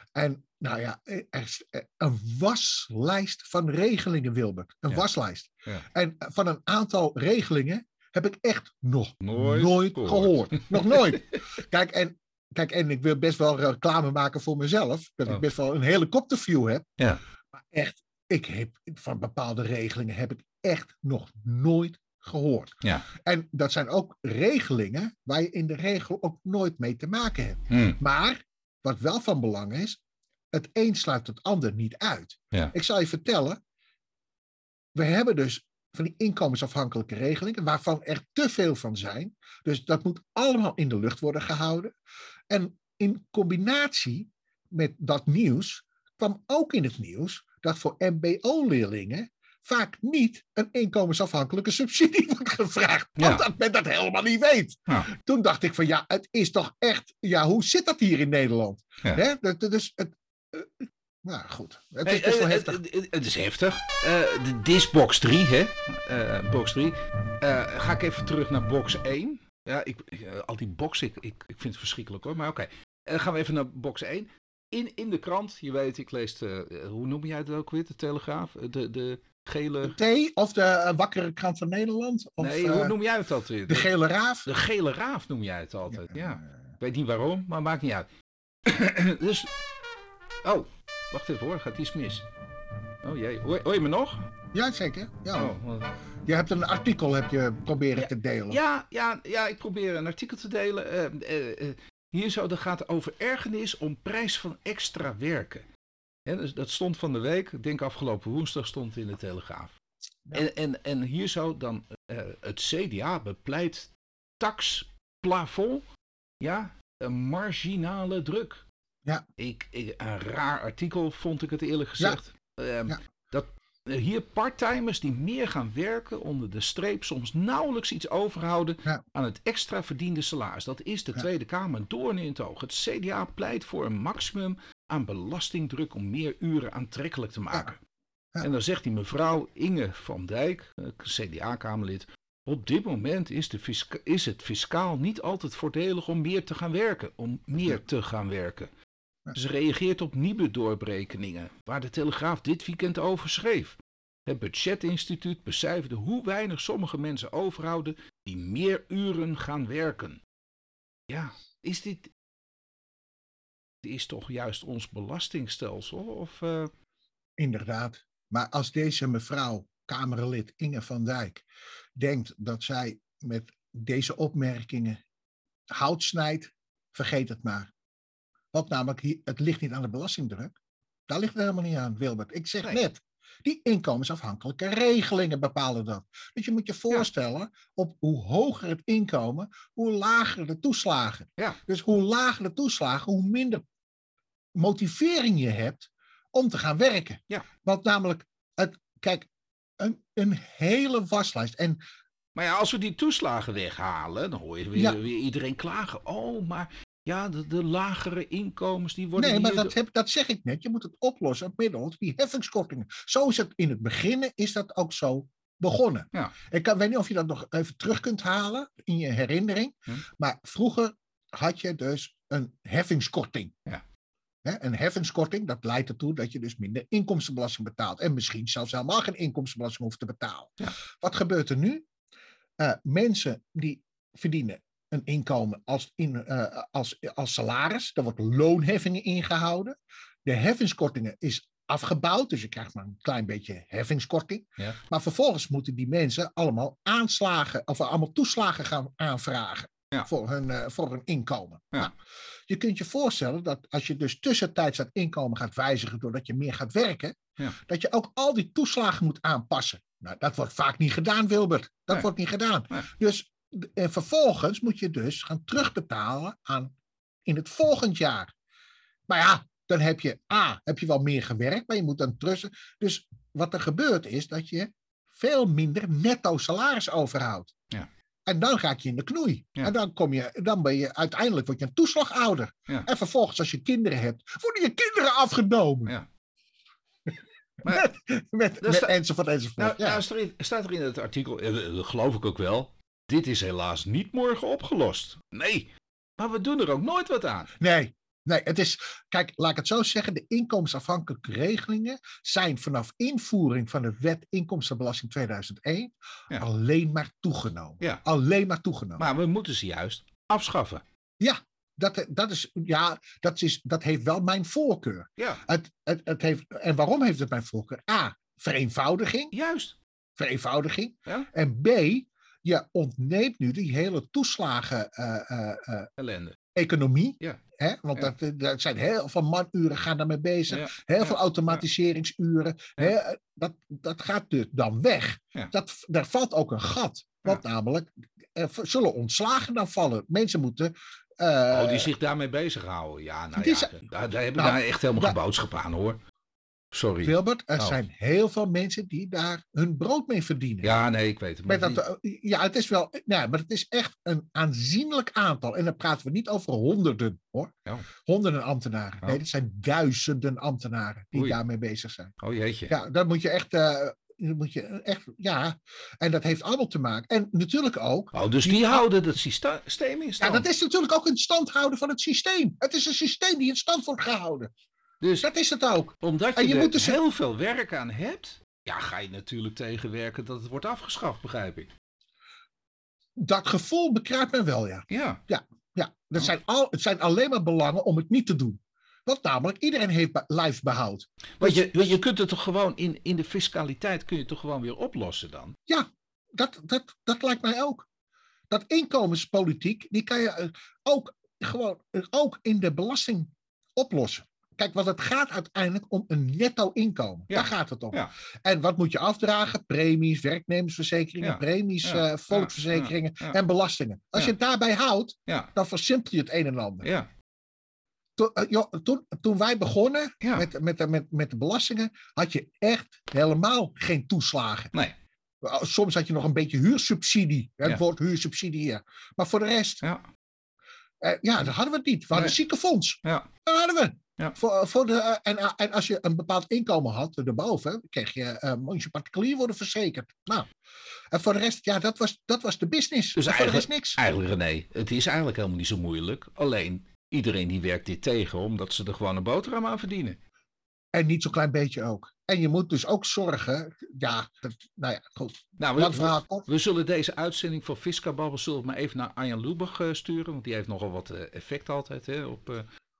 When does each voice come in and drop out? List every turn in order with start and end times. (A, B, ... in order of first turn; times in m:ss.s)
0:00.1-0:16.9 A
0:09.2-0:11.2 B
0:17.5-0:30.0 A
0:27.7-0:28.0 B
0:30.5-0:33.6 A
0:34.9-0:41.9 A
0:42.5-1:02.8 A
0:53.2-0:53.4 B
1:02.0-1:20.0 B
1:19.8-1:23.0 A
1:22.4-1:23.9 B
1:23.7-1:24.5 A
1:24.4-1:28.1 B
1:26.0-1:26.4 A
1:28.6-1:29.5 B
1:30.4-1:32.2 B
1:33.0-1:34.3 B
1:34.5-1:35.6 A
1:35.4-1:35.9 B
1:36.3-1:38.6 A
1:38.0-1:45.6 B
1:46.2-1:49.8 B
1:50.3-1:55.8 B
1:56.4-1:58.6 B
1:59.4-2:17.8 B
2:18.4-2:28.7 B
2:29.3-2:40.2 B
2:41.1-2:42.1 B
2:43.8-2:46.7 B
2:47.4-2:51.4 A
2:52.0-2:55.0 A
2:55.7-2:57.7 A
2:58.5-3:00.5 A
3:01.1-3:13.6 A
3:14.5-3:19.3 A
3:19.8-3:21.8 A
3:22.3-3:29.7 B
3:29.2-3:43.6 A
3:44.4-3:51.8 A
3:52.6-4:11.9 A
4:12.5-4:26.7 A
4:27.2-4:28.3 A
4:29.1-4:37.5 A
4:38.2-4:45.9 A
4:47.6-4:50.0 A
4:48.6-4:48.9 B
4:49.6-4:57.5 B
4:57.6-5:09.0 A
5:09.0-5:10.8 B
5:11.2-5:19.3 A
5:15.2-5:15.4 B
5:19.3-5:19.8 B
5:20.2-5:25.9 A
5:26.0-5:26.4 B
5:26.5-5:41.9 A
5:30.5-5:31.6 B
5:41.5-5:46.0 B
5:43.4-5:43.7 A
5:44.3-5:45.2 A
5:46.7-5:47.8 B
5:47.0-5:50.8 A
5:50.6-5:51.8 B
5:51.4-6:02.1 A
6:02.2-6:02.7 B
6:02.7-6:08.8 A
6:08.1-6:10.4 B
6:10.2-6:14.5 A
6:15.0-6:15.3 B
6:15.2-6:17.0 A
6:16.0-6:21.7 B
6:23.2-6:31.7 A
6:24.9-6:25.2 B
6:31.4-6:35.6 B
6:35.7-6:37.8 A
6:38.5-6:56.9 A
6:47.3-6:48.1 B
6:51.2-6:53.4 B
6:56.8-6:57.1 B
6:58.2-7:04.7 A
7:00.2-7:00.5 B
7:05.4-7:09.8 A
7:11.0-7:20.5 A
7:21.1-7:24.0 A
7:23.1-7:30.2 B
7:30.9-7:36.5 A
7:35.6-7:42.6 B